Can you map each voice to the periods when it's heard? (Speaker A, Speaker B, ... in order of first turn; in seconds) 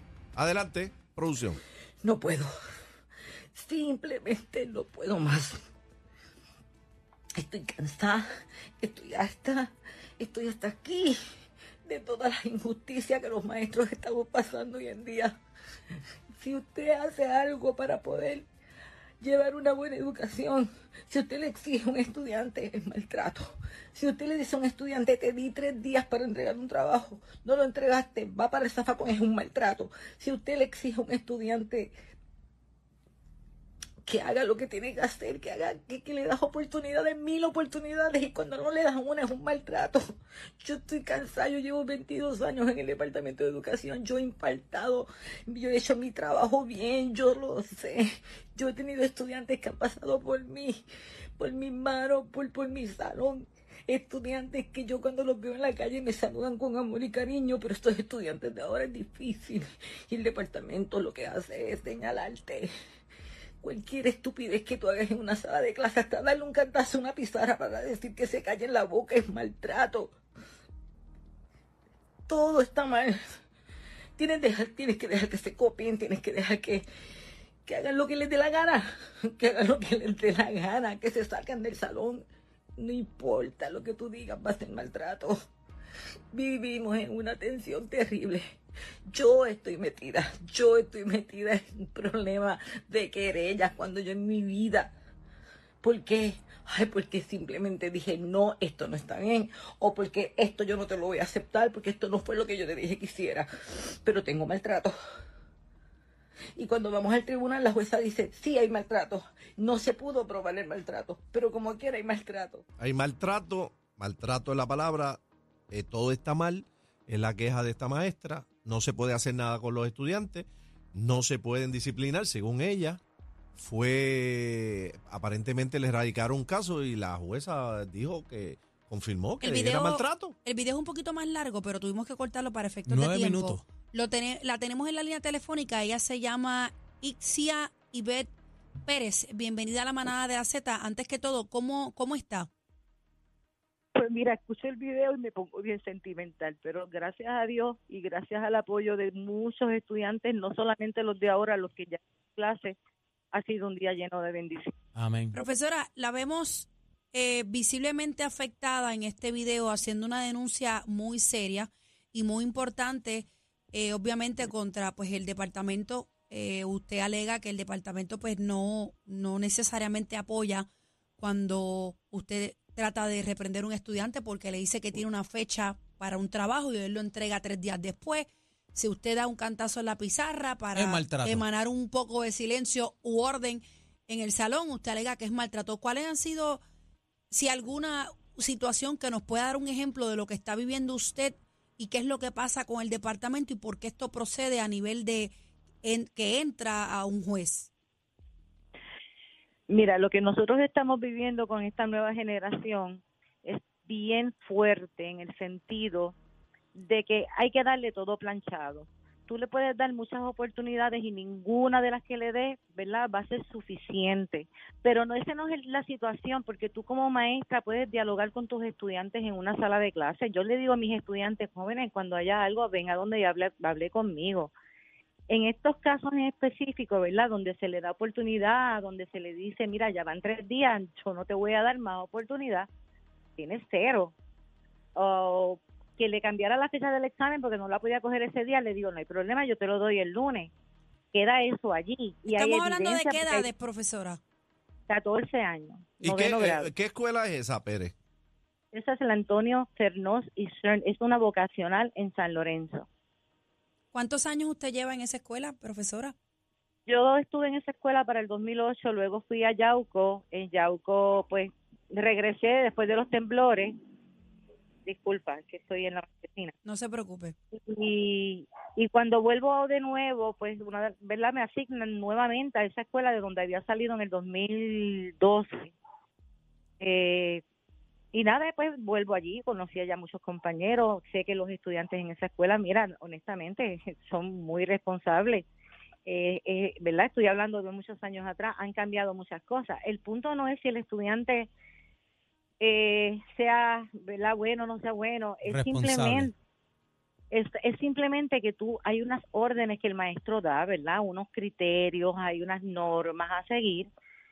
Speaker A: 0.4-1.6, 112.8-123.0, 123.5-130.4, 246.0-247.9
Speaker B: 2.0-2.5, 3.5-5.6, 7.4-8.3, 8.8-11.2, 11.9-15.4, 16.4-18.5, 19.2-31.9, 34.1-40.0, 40.6-50.8, 51.4-62.7, 63.6-70.2, 72.3-73.2, 74.2-76.8, 77.7-82.3, 82.8-85.4, 86.3-88.6, 89.1-94.9, 95.8-104.9, 106.6-112.6
Speaker C: 129.4-138.3, 138.9-142.5, 155.3-170.7, 171.2-186.6, 187.3-197.7, 242.3-244.2, 253.9-256.1, 266.6-267.4
Speaker D: 132.9-133.6, 155.0-155.3, 180.8-181.4, 295.5-296.3
Speaker E: 144.0-152.8, 153.3-154.7, 199.7-206.2, 206.8-224.5, 225.3-232.7, 233.4-234.2, 234.9-240.5, 241.1-243.5, 244.9-246.7, 248.7-252.9, 256.9-263.8, 264.9-266.5, 267.5-275.8, 276.8-277.4, 278.1-285.5, 286.1-291.5, 292.6-296.3, 297.3-303.9